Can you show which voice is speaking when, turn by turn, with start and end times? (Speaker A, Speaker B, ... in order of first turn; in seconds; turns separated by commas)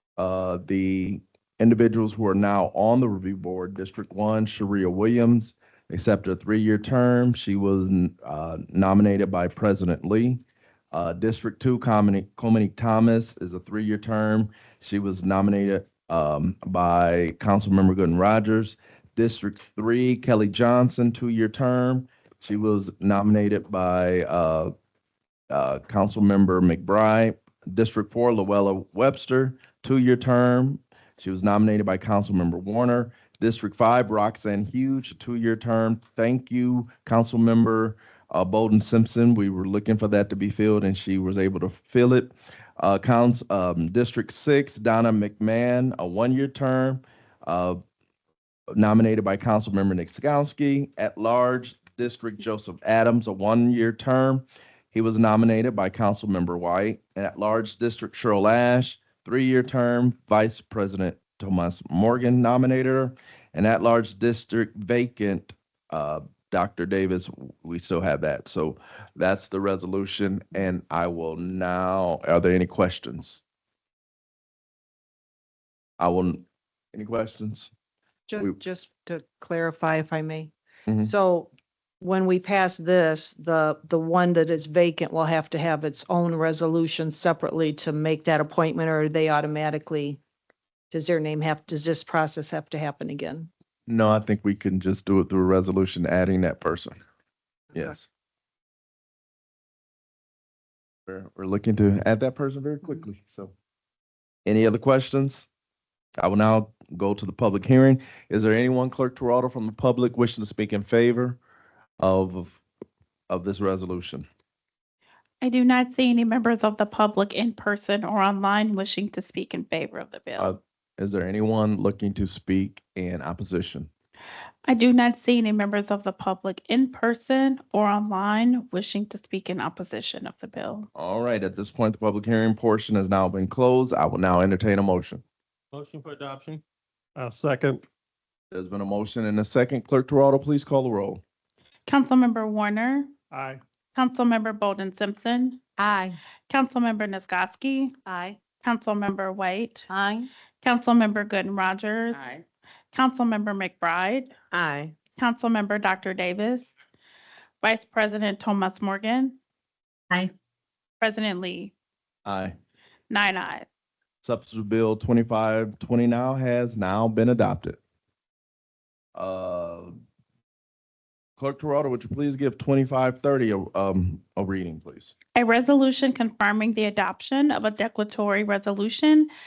Speaker A: 0.2-24.7, Speaker A: 25.5-47.8, Speaker A: 48.7-73.4, Speaker A: 76.0-77.7, Speaker B: 78.3-90.2, Speaker B: 90.9-93.5, Speaker A: 93.9-97.0, Speaker A: 97.7-98.1, Speaker A: 101.1-103.5, Speaker A: 104.5-105.5, Speaker A: 106.2-111.4, Speaker A: 112.0-112.6, Speaker A: 113.3-114.3, Speaker C: 115.4-120.5, Speaker A: 120.4-123.9, Speaker C: 124.7-130.9, Speaker A: 130.9-135.2, Speaker D: 135.7-136.6, Speaker D: 137.2-137.8, Speaker A: 138.5-141.2, Speaker C: 141.9-143.1, Speaker D: 143.3-143.6, Speaker C: 143.9-145.6, Speaker C: 146.5-147.9, Speaker C: 148.6-149.9, Speaker C: 150.6-152.2, Speaker C: 152.9-154.3, Speaker C: 155.2-156.7, Speaker C: 157.6-159.3, Speaker C: 161.0-161.7, Speaker A: 162.2-162.5, Speaker C: 163.1-163.7, Speaker A: 164.2-167.8, Speaker A: 169.1-170.0, Speaker A: 171.4-175.1, Speaker C: 175.3-179.3